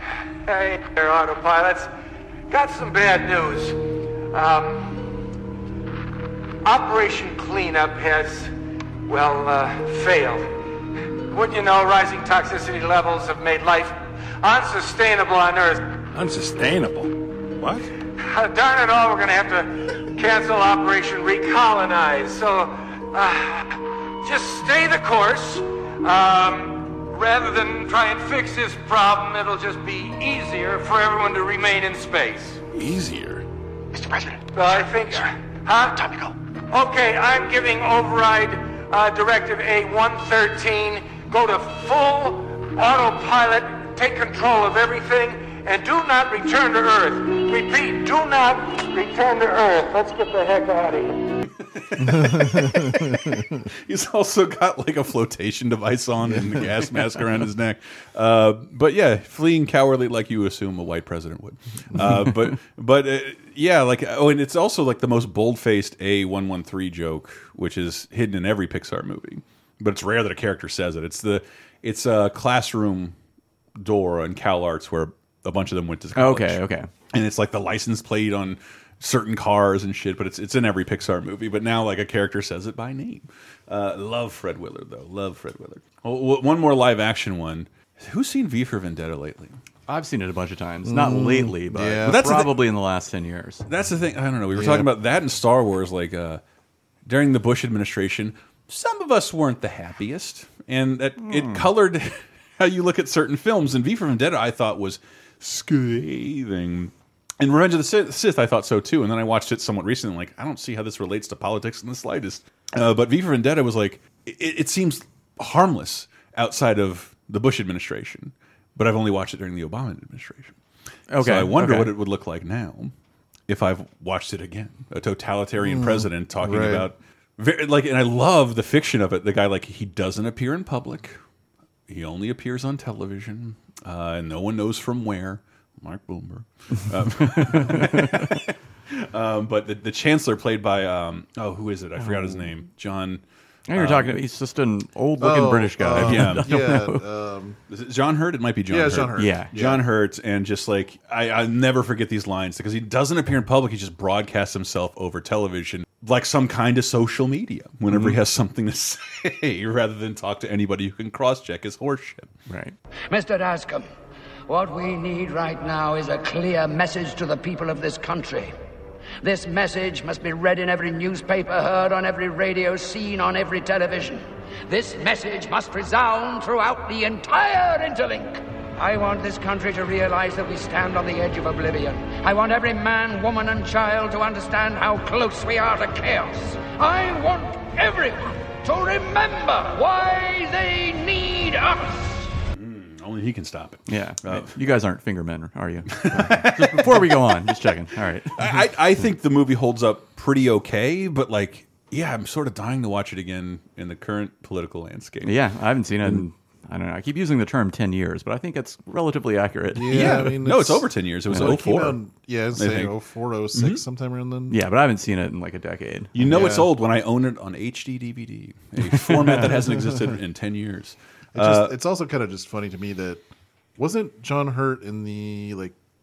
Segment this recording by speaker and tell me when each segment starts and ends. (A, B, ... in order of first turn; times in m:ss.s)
0:00.4-0:01.9 A
0:02.5-0:05.2 A
0:06.6-0:08.5 A
0:09.1-0:10.6 A
0:11.3-0:16.0 A
0:18.2-0:32.6 A
0:34.5-0:36.1 A
0:36.7-0:51.2 A
0:51.6-1:13.2 B
0:52.1-0:53.6 C
0:56.3-0:56.7 C
1:02.0-1:02.3 D
1:13.8-1:29.6 B
1:16.2-1:16.9 D
1:29.9-1:33.6 D
1:30.8-1:32.2 C
1:32.0-1:32.6 B
1:33.7-1:36.4 B
1:34.5-1:34.9 C
1:37.1-2:00.6 B
1:41.2-1:41.7 D
2:01.1-2:01.9 D
2:01.2-2:02.9 B
2:03.5-2:11.2 B
2:05.6-2:06.9 C
2:11.9-2:23.2 B
2:17.2-2:18.3 D
2:22.0-2:22.5 D
2:23.7-2:27.0 D
2:23.7-2:24.2 B
2:25.2-2:27.6 C
2:25.9-2:26.5 B
2:27.7-2:42.3 B
2:28.7-2:29.8 C
2:29.2-2:29.5 D
2:37.9-2:38.2 D
2:42.5-2:42.8 D
2:43.1-2:43.9 E
2:44.5-2:48.5 E
2:49.2-3:11.9 E
3:12.6-3:14.6 B
3:13.9-3:18.6 D
3:15.9-3:17.6 B
3:18.4-3:25.4 B
3:25.2-3:30.3 D
3:29.7-3:34.6 C
3:29.9-3:32.0 B
3:32.5-3:32.9 B
3:33.5-3:33.8 B
3:34.5-3:36.1 D
3:36.2-3:41.8 B
3:36.2-3:36.7 C
3:39.1-3:39.6 D
3:41.3-3:43.2 C
3:43.8-3:45.8 C